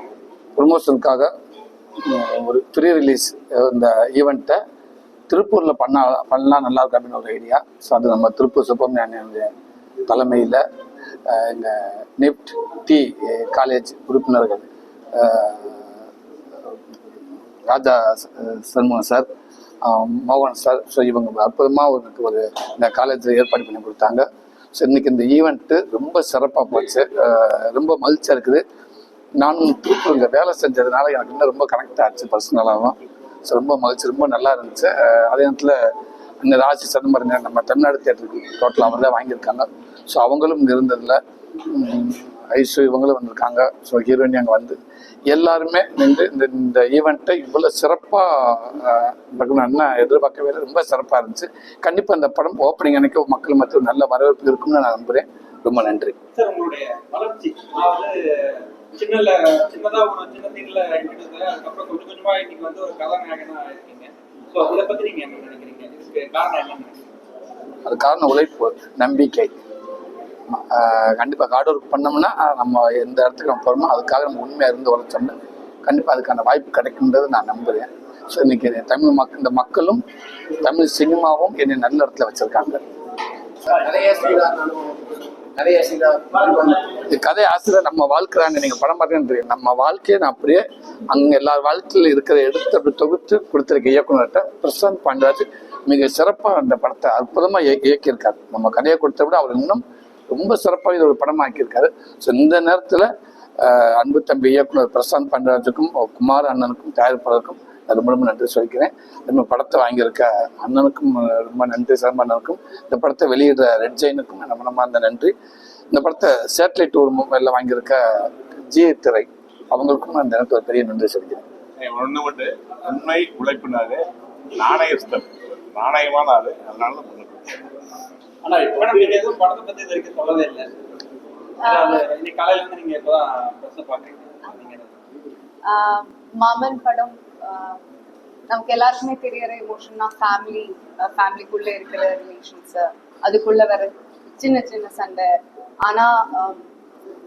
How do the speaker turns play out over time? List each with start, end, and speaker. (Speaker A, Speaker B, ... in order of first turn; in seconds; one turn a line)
Speaker A: 0.5-1.3
Speaker A: 2.0-4.6
Speaker A: 5.3-9.5
Speaker A: 10.0-10.6
Speaker A: 11.2-16.0
Speaker A: 17.6-19.3
Speaker A: 19.8-28.6
Speaker A: 29.4-35.9
Speaker A: 36.4-56.1
Speaker B: 56.3-67.0
Speaker A: 67.8-69.5
Speaker A: 70.5-75.3
Speaker A: 75.8-82.8
Speaker A: 83.8-84.6
Speaker A: 85.6-115.3
Speaker A: 115.9-121.4
Speaker C: 121.8-127.6
Speaker B: 128.4-130.7
Speaker D: 131.6-132.0
Speaker B: 131.6-134.9
Speaker D: 135.6-137.8
Speaker D: 138.5-145.3
Speaker D: 145.8-146.6